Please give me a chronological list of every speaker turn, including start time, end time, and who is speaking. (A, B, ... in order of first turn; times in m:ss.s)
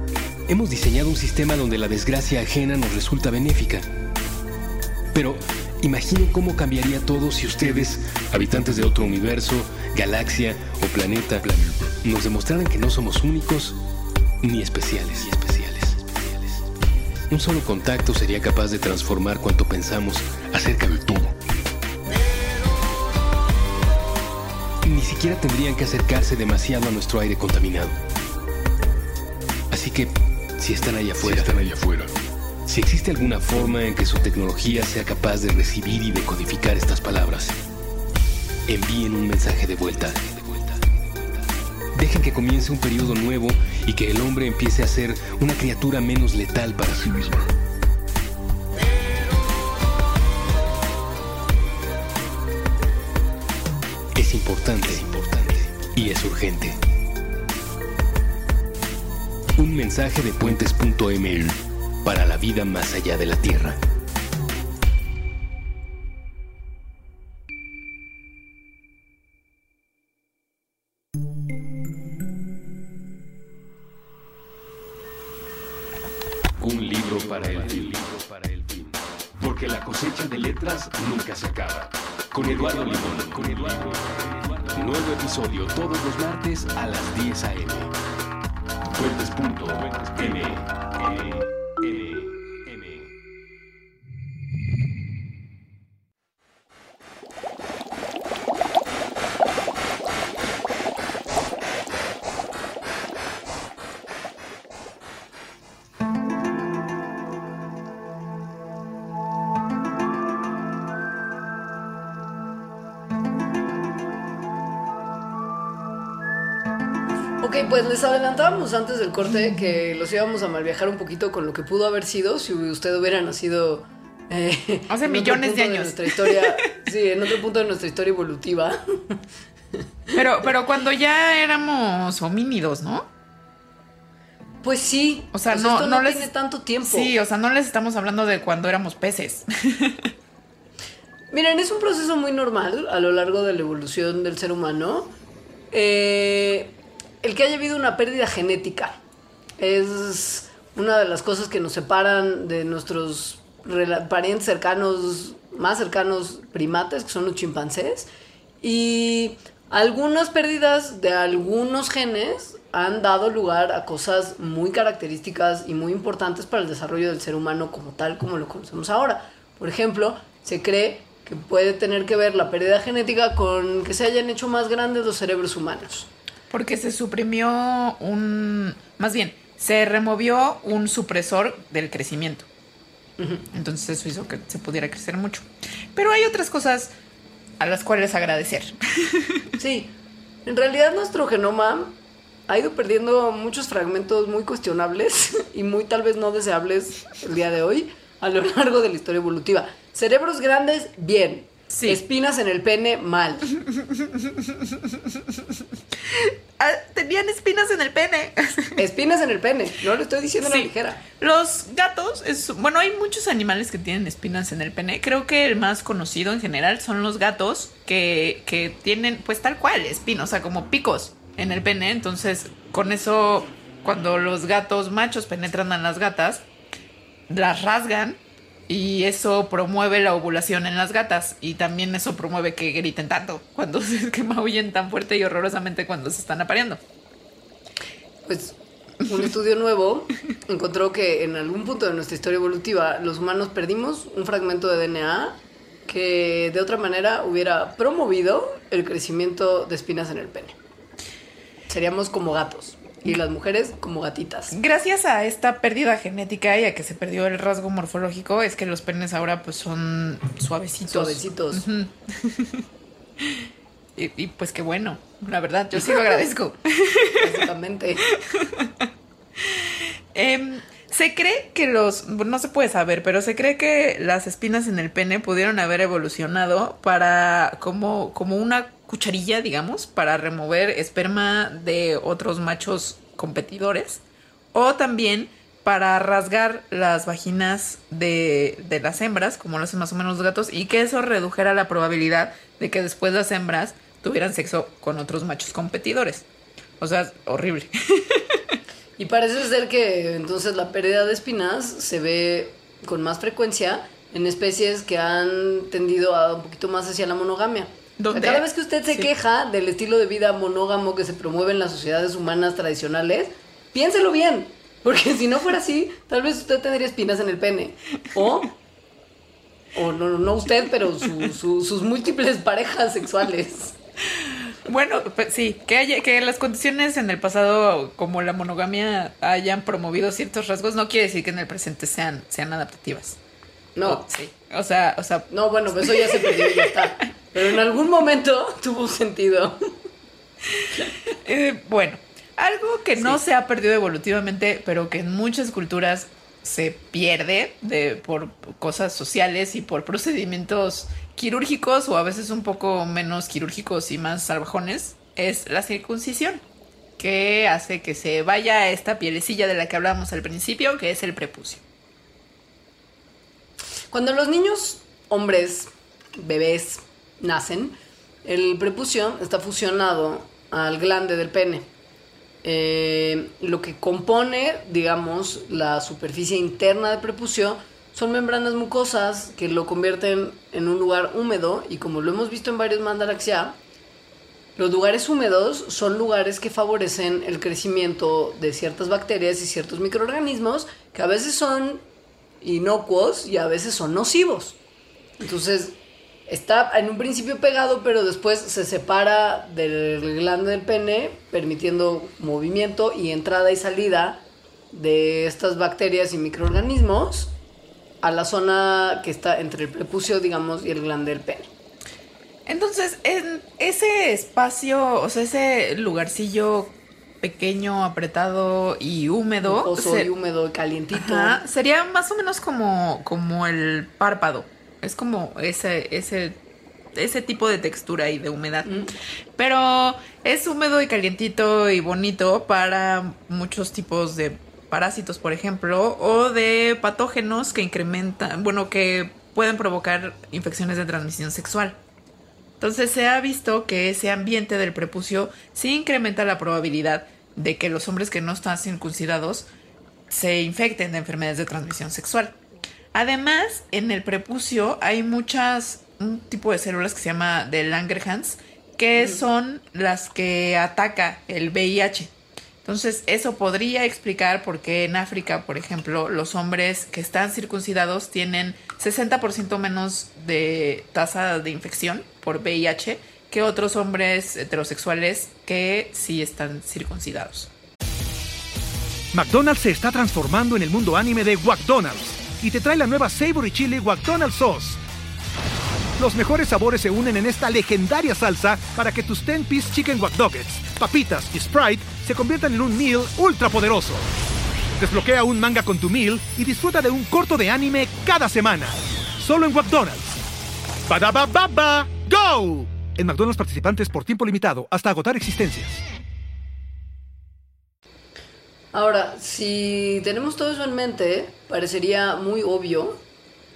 0:00.5-0:03.9 A
0:05.1-0:13.8 A
0:14.4-0:16.6 A
0:17.3-0:21.4 A
0:24.8-0:28.0 A
0:29.7-0:32.1 A
0:32.7-0:37.6 A
0:38.7-0:40.8 A
0:42.0-0:47.5 A
0:54.2-0:56.8 A
0:59.6-1:03.8 A
1:16.6-1:27.9 A
1:28.9-1:33.1 A
1:57.4-2:09.2 B
2:04.9-2:06.6 C
2:10.1-2:13.1 C
2:14.6-2:17.1 B
2:15.3-2:20.1 C
2:21.3-2:25.1 B
2:25.7-2:29.0 B
2:29.6-2:38.1 B
2:38.6-2:56.1 B
2:56.5-3:02.5 C
3:03.2-3:03.5 B
3:03.5-3:06.9 C
3:07.6-3:09.4 C
3:09.6-3:09.9 B
3:10.5-3:12.0 B
3:12.5-3:23.5 B
3:21.7-3:22.0 C
3:23.7-3:28.8 C
3:28.8-3:31.0 B
3:30.4-3:46.4 C
3:47.3-3:56.8 C
3:58.3-4:10.6 B
4:11.7-4:14.6 B
4:14.5-4:22.7 C
4:20.9-4:21.7 B
4:23.2-4:27.3 C
4:27.2-4:28.0 B
4:28.1-4:44.0 C
4:44.5-4:56.3 C
4:56.8-4:58.4 C
4:59.0-5:18.5 B
5:08.0-5:09.1 C
5:19.8-5:23.8 B
5:24.5-5:33.2 C
5:33.8-5:34.0 B
5:33.8-5:36.8 C
5:35.3-5:39.8 B
5:40.5-5:56.4 C
5:57.0-6:01.6 C
6:03.9-6:11.7 B
6:12.4-6:23.6 B
6:24.6-6:31.8 B
6:32.4-6:34.6 B
6:35.2-6:35.8 B
6:36.3-6:47.3 B
6:48.0-6:51.5 B
6:52.5-7:00.1 C
6:59.4-7:01.4 B
7:00.9-7:06.4 C
7:06.9-7:08.7 C
7:08.6-7:09.0 B
7:09.4-7:21.8 C
7:22.6-7:29.5 C
7:30.1-7:32.4 C
7:32.9-7:42.1 C
7:42.6-7:57.5 C
7:59.1-8:04.8 D
8:06.0-8:14.0 D
8:14.8-8:20.2 D
8:20.9-8:25.8 D
8:28.7-8:33.0 B